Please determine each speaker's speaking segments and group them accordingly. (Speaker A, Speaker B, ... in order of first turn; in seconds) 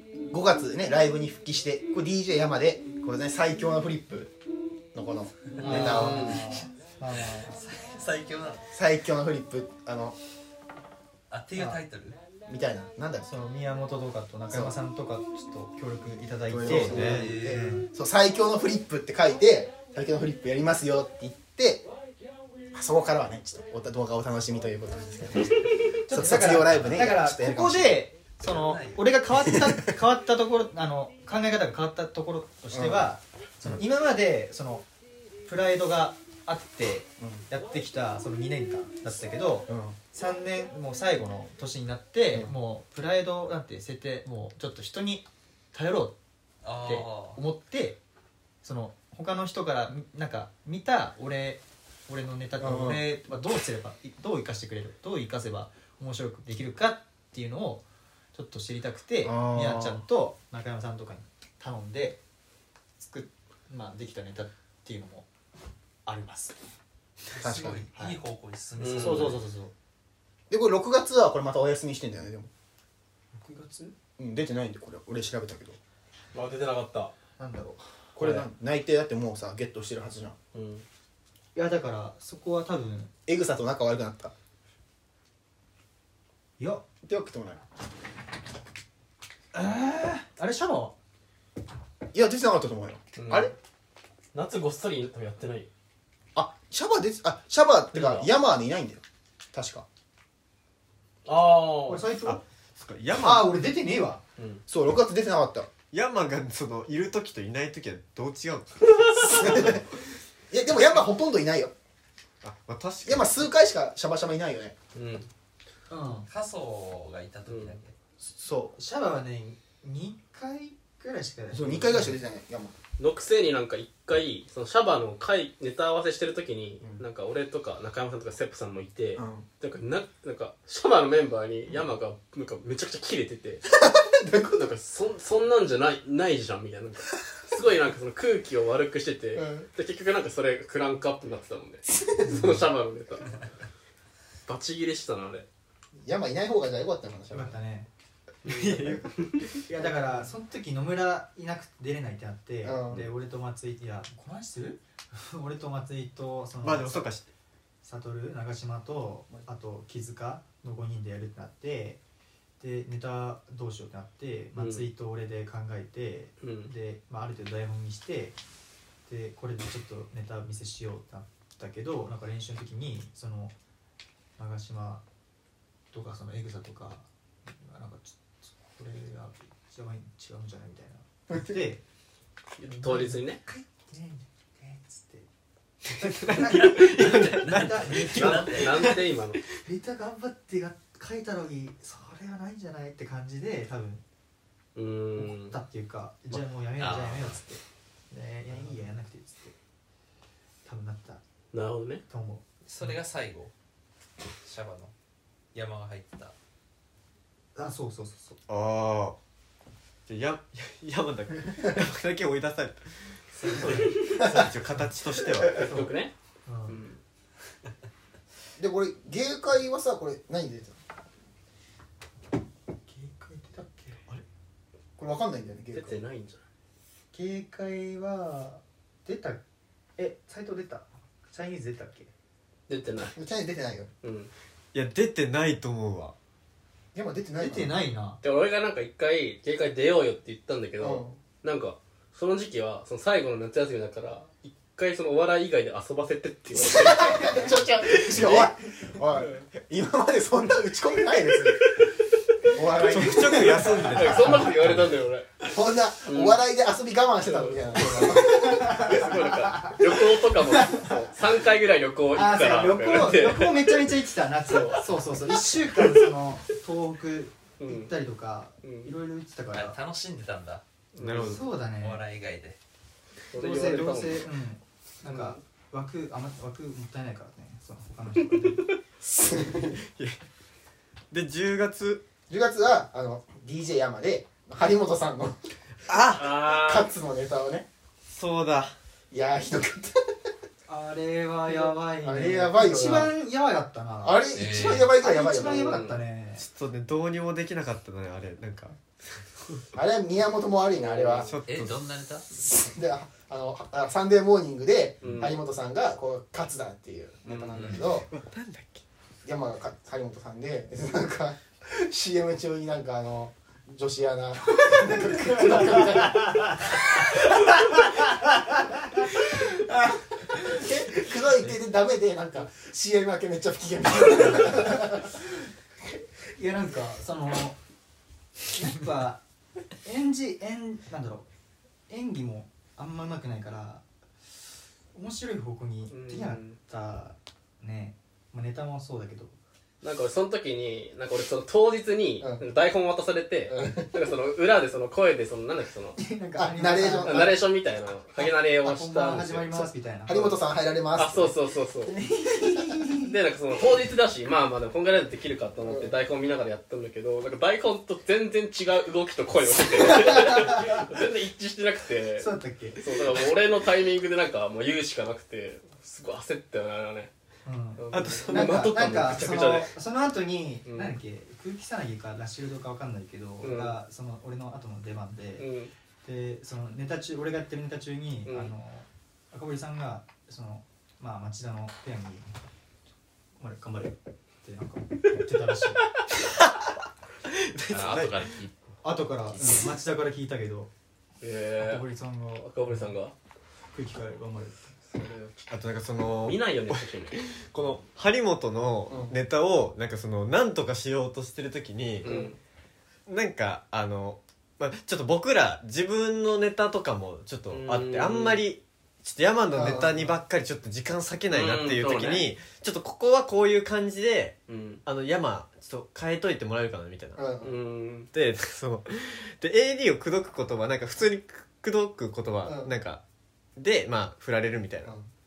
Speaker A: 0.3-4.3, 4.9-6.4, 8.7-10.2, 12.5-13.2, 14.5-14.8, 16.5-21.9, 22.7-28.0, 29.4-29.7, 32.7-33.1, 37.2-37.4, 39.7-40.0, 52.6-53.1, 59.2-60.0, 67.4-67.8, 70.5-72.5, 74.2-75.8, 78.2-80.3, 83.3-84.3, 87.0-87.6, 92.1-93.5, 96.3-99.0, 99.5-99.8, 104.7-105.7, 109.3-109.8, 110.5-111.7, 113.0-114.7, 118.3-118.7, 121.5-122.7, 129.2-129.4, 133.7-134.6, 139.3-139.7, 141.9-142.6, 146.0-147.6, 152.6-153.1, 181.3-181.6, 218.6-220.8, 225.0-226.0, 233.1-233.9, 236.9-237.7, 240.8-241.2, 246.6-251.7, 252.5-253.7, 255.5-258.9, 279.2-279.7, 282.3-285.4, 286.4-287.7, 289.1-290.0, 292.0-293.1, 294.0-295.8, 299.7-301.3, 302.3-308.1, 309.2-316.4, 320.4-325.1, 342.2-342.5, 343.5-343.9, 346.4-347.4, 350.1-351.3, 355.6-355.9, 389.4-389.7, 398.9-399.2, 409.5-410.1, 417.1-417.5, 422.4-422.7
Speaker B: 5.6-8.7, 11.3-12.2, 16.6-17.7, 28.4-29.1, 46.6-47.4, 67.3-69.4, 116.2-117.9, 186.9-188.8, 196.8-197.4, 202.6-203.5, 204.4-204.9, 205.5-206.3, 269.5-270.6, 271.7-272.6, 294.3-294.9, 301.4-302.3, 307.6-307.8, 387.7-388.5, 389.2-389.7
Speaker C: 5.6-7.6, 11.5-11.8, 13.2-17.9, 26.1-34.9, 35.5-46.2, 46.8-48.0, 48.6-62.2, 63.0-65.3, 66.0-66.5, 67.9-68.2, 68.9-69.7, 73.3-73.9, 77.4-78.5, 81.5-83.1, 86.6-86.8, 89.5-90.9, 101.8-102.4, 103.2-104.2, 115.9-116.3, 118.7-122.2, 142.2-142.6, 147.3-147.9, 148.5-149.0, 149.7-157.1, 157.8-162.0, 162.6-168.3, 169.1-173.5, 174.4-175.0, 175.9-181.8, 182.7-185.3, 185.9-188.8, 189.6-194.0, 195.2-199.5, 200.6-201.2, 202.1-203.0, 207.5-208.4, 213.4-214.9, 216.4-216.8, 222.8-224.0, 227.1-229.4, 230.0-232.1, 237.4-238.2, 257.7-259.9, 260.5-260.8, 262.1-269.8, 271.2-272.0, 273.3-278.6, 290.7-296.5, 314.7-319.4, 326.3-327.6, 328.5-329.2, 329.8-331.3, 331.9-333.8, 334.9-339.4, 346.0-347.4, 348.1-350.3, 351.9-353.1, 359.8-360.8, 362.2-362.9, 367.4-375.4, 376.0-382.3, 383.4-385.8, 388.8-390.7, 391.6-392.9, 393.7-394.6
Speaker D: 5.6-6.4, 68.8-69.4, 76.3-77.1, 80.5-80.8, 93.2-93.5, 94.3-95.7, 97.9-98.3, 101.2-102.0, 104.4-104.6, 108.9-109.5, 114.9-115.3, 117.5-117.8, 123.0-133.7, 134.4-143.4, 144.4-145.5, 148.4-149.4, 164.5-164.9, 166.4-166.7, 182.6-183.4, 188.2-189.4, 194.7-195.6, 201.5-202.0, 213.7-214.1, 215.4-216.1, 216.7-217.0, 225.7-226.4, 232.7-233.2, 234.0-234.3, 238.2-248.5, 249.2-249.4, 253.1-255.3, 256.1-256.4, 257.2-263.8, 264.5-265.2, 267.6-267.9, 268.6-268.9, 270.9-271.4, 273.3-274.3, 275.0-275.4, 278.4-278.7, 286.1-286.9, 295.4-296.0, 300.7-301.4, 305.0-305.4, 307.2-307.8, 335.9-336.6, 339.8-346.0, 347.0-350.3, 350.9-351.9, 353.0-367.1, 367.8-369.7, 370.6-371.0, 373.4-373.8, 375.4-375.7, 378.3-378.5, 391.2-391.9, 392.4-393.1, 394.9-397.2, 402.0-402.4, 407.5-408.4, 411.3-412.3, 414.5-414.8, 417.4-418.1
Speaker E: 16.8-17.3, 102.2-103.5, 105.9-109.8, 112.4-113.5, 148.4-149.6, 156.6-157.3, 186.1-189.0, 208.5-209.2, 210.1-215.9, 234.7-236.1, 252.8-254.9, 271.0-271.4, 279.3-280.2, 281.1-282.0, 285.9-286.3, 288.1-288.8, 296.4-298.8, 301.1-301.8, 307.7-308.8, 367.9-368.5, 386.1-386.7, 387.3-388.3, 395.5-402.1, 403.1-417.3, 418.1-423.0, 423.6-424.9